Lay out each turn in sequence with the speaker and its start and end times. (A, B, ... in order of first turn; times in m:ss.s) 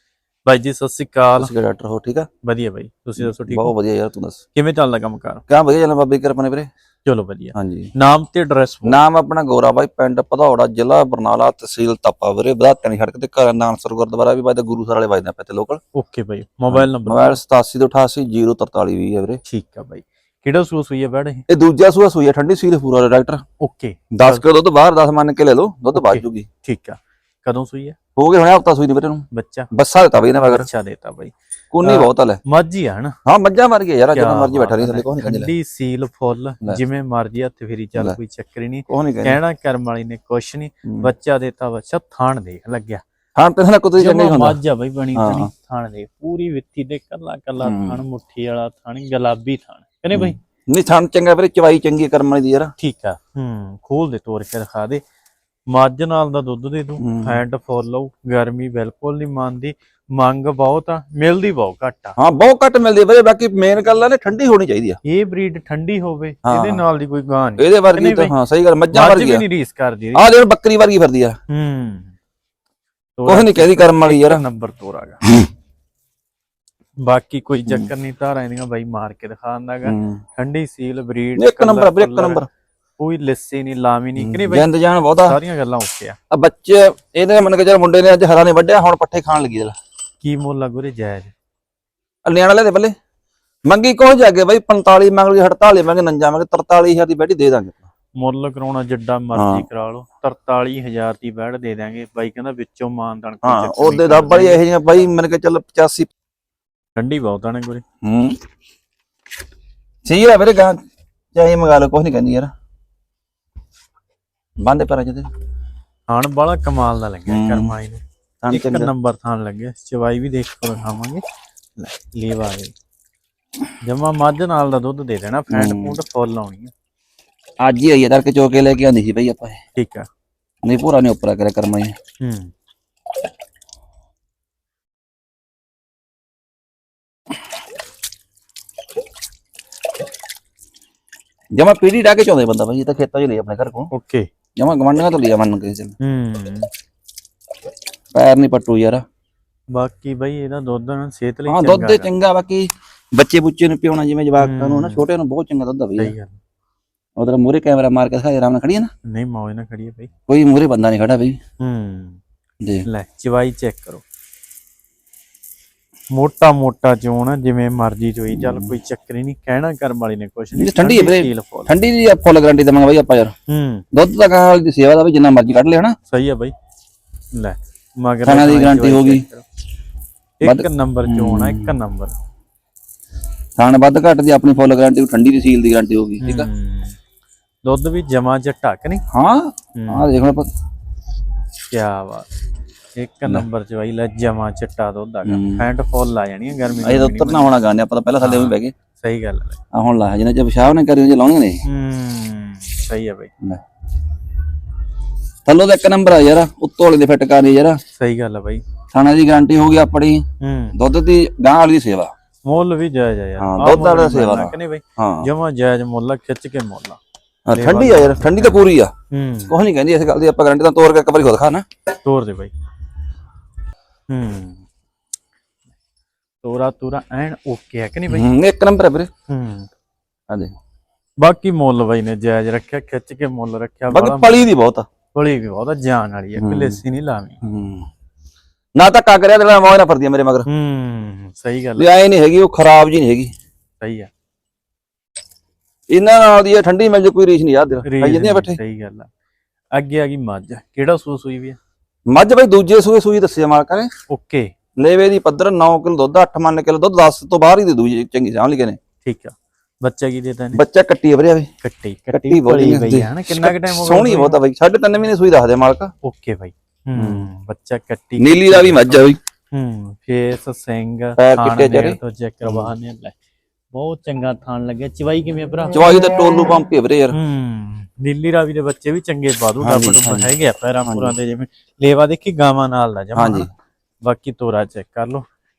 0:00.4-0:01.5 A
0:01.4-0:02.3 B
0:02.4-0:03.7 A
0:03.2-0:04.4 B
0:04.5-0:05.4 A
0:05.5-0:06.7 B
0:07.0-0:09.0 A
0:07.5-0:07.9 B
0:08.8-0:15.8 B
0:15.9-0:17.4 A
0:16.7-0:19.4 B
0:19.4-0:21.4 A
0:21.5-0:23.4 B
0:23.6-0:24.4 A
0:24.1-0:26.5 B
0:25.9-0:28.0 A
0:28.2-0:30.7 B
0:29.3-0:33.2 A
0:31.7-0:32.4 B
0:33.2-0:35.5 B
0:34.1-0:43.0 A
0:38.9-0:39.4 B
0:43.4-0:44.6 B
0:44.0-0:50.4 A
0:45.1-0:45.5 B
0:47.6-0:48.0 B
0:50.1-0:52.7 B
0:52.8-0:55.0 A
0:55.7-1:02.2 A
0:57.0-0:57.4 B
1:02.2-1:05.0 B
1:05.0-1:08.3 A
1:06.4-1:06.8 B
1:07.6-1:09.4 B
1:08.9-1:10.3 A
1:10.1-1:11.4 B
1:11.5-1:12.1 A
1:13.2-1:15.2 A
1:13.3-1:14.4 B
1:17.0-1:22.4 A
1:19.8-1:20.2 B
1:21.4-1:22.5 B
1:23.0-1:24.7 A
1:24.2-1:25.4 B
1:25.2-1:26.2 A
1:26.3-1:29.7 B
1:30.2-1:31.3 A
1:32.2-1:32.9 B
1:33.6-1:37.8 B
1:38.2-1:44.6 A
1:39.3-1:39.6 B
1:43.4-1:46.1 B
1:47.0-1:47.8 A
1:48.0-1:48.4 B
1:50.0-1:50.8 B
1:51.3-1:52.5 B
1:54.6-1:55.3 B
1:56.1-2:01.2 A
1:57.3-1:57.7 B
1:58.4-1:58.9 B
2:01.8-2:02.7 A
2:03.8-2:06.7 A
2:05.5-2:05.9 B
2:07.6-2:09.6 B
2:09.8-2:10.1 A
2:10.6-2:11.9 B
2:12.2-2:12.5 A
2:21.5-2:23.9 B
2:23.9-2:24.3 A
2:24.6-2:26.0 B
2:26.0-2:26.7 A
2:28.1-2:29.0 B
2:29.7-2:32.1 A
2:31.5-2:36.1 B
2:34.4-2:35.0 A
2:36.0-2:36.4 A
2:37.2-2:38.9 B
2:39.1-2:40.1 A
2:40.3-2:41.4 B
2:41.6-2:42.2 A
2:42.6-2:42.8 B
2:42.8-2:44.0 A
2:46.1-2:51.7 A
2:48.3-2:48.7 B
2:50.6-2:53.3 B
2:53.5-2:53.8 A
2:53.9-2:55.9 B
2:56.1-2:56.5 A
2:57.3-2:59.4 A
2:58.2-2:59.2 B
3:00.4-3:02.1 A
3:00.4-3:01.7 B
3:03.6-3:06.5 B
3:06.2-3:06.9 A
3:07.6-3:09.0 A
3:09.1-3:10.5 B
3:09.7-3:10.0 A
3:11.7-3:12.3 A
3:13.0-3:17.5 A
3:15.2-3:15.6 B
3:16.8-3:18.7 B
3:18.2-3:19.6 A
3:19.7-3:21.6 B
3:21.6-3:23.3 A
3:25.4-3:27.8 B
3:28.0-3:28.6 A
3:28.9-3:30.2 B
3:30.4-3:30.8 A
3:30.7-3:32.1 B
3:32.4-3:37.0 A
3:33.4-3:35.3 B
3:37.5-3:38.9 B
3:37.5-3:39.5 A
3:39.5-3:41.6 B
3:42.0-3:42.5 A
3:44.1-3:44.6 A
3:46.4-3:48.3 A
3:48.1-3:49.1 B
3:49.3-3:49.7 A
3:51.2-3:54.5 A
3:53.9-3:54.8 B
3:55.1-3:57.4 A
3:56.4-3:56.8 B
3:57.4-3:57.9 B
3:58.8-4:00.5 B
4:00.4-4:01.9 A
4:01.8-4:03.3 B
4:03.8-4:04.1 A
4:05.9-4:08.6 B
4:07.8-4:09.1 A
4:09.7-4:11.6 A
4:12.1-4:13.9 B
4:14.1-4:14.5 A
4:14.8-4:18.8 B
4:19.0-4:20.6 A
4:20.5-4:21.5 B
4:21.6-4:24.4 A
4:22.1-4:25.9 B
4:26.0-4:33.2 A
4:27.0-4:27.3 B
4:28.2-4:29.2 B
4:31.2-4:32.7 B
4:33.7-4:35.9 A
4:35.7-4:37.2 B
4:37.1-4:43.5 A
4:39.6-4:40.3 B
4:40.8-4:41.1 B
4:43.2-4:43.5 B
4:44.0-4:45.2 A